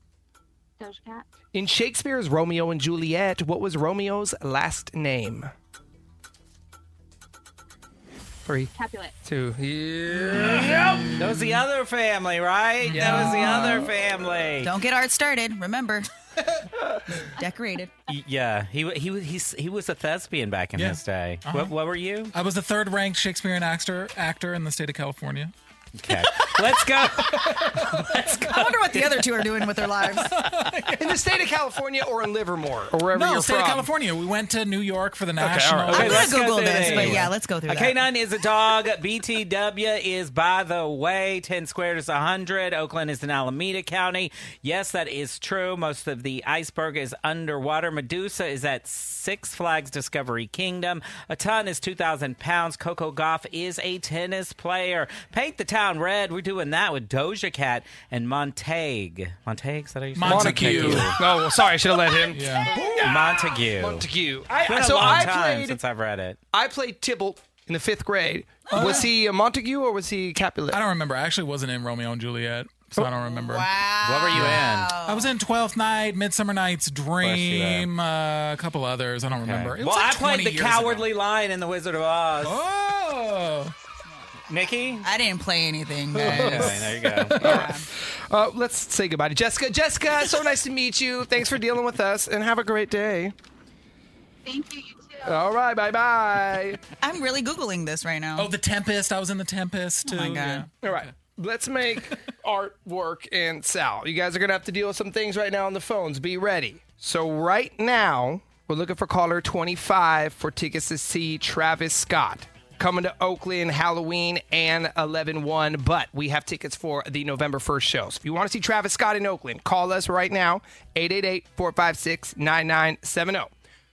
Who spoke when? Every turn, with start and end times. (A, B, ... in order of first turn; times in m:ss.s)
0:00.8-0:01.3 A
0:01.5-0:05.5 B
0:08.5-0:08.7 B
0:08.7-0:09.2 A
0:09.2-0:11.1 B
0:11.1-0:14.7 C
0:12.9-0:13.9 D
0:13.0-0:13.4 E
0:14.6-0:16.1 E
0:17.4-0:17.9 E
0:18.1-0:22.3 C
0:20.8-0:21.7 D
0:22.3-0:25.5 D
0:26.0-0:28.6 C
0:27.3-0:28.6 D
0:28.2-0:30.5 E
0:30.2-0:31.2 D
0:31.0-0:33.9 B
0:33.1-0:36.4 D
0:35.4-0:36.1 B
0:35.9-0:38.0 E
0:35.9-1:01.3 C
0:36.9-0:37.3 D
1:00.2-1:01.2 D
1:00.2-1:05.8 B
1:02.3-1:02.8 D
1:03.0-1:04.1 C
1:04.7-1:06.4 C
1:06.5-1:10.8 B
1:08.7-1:09.1 D
1:10.7-1:13.7 D
1:13.1-1:15.3 E
1:14.0-1:14.9 C
1:14.3-1:21.1 D
1:17.2-1:17.9 C
1:19.3-1:22.6 C
1:22.4-1:23.7 D
1:24.5-1:25.1 C
1:25.0-1:26.8 E
1:26.2-1:33.4 B
1:26.2-1:27.6 C
1:27.3-1:27.9 E
1:34.4-1:35.4 A
1:35.2-1:36.8 B
1:37.0-1:38.5 E
1:38.4-1:41.1 D
1:40.0-1:40.7 E
1:40.8-2:03.5 B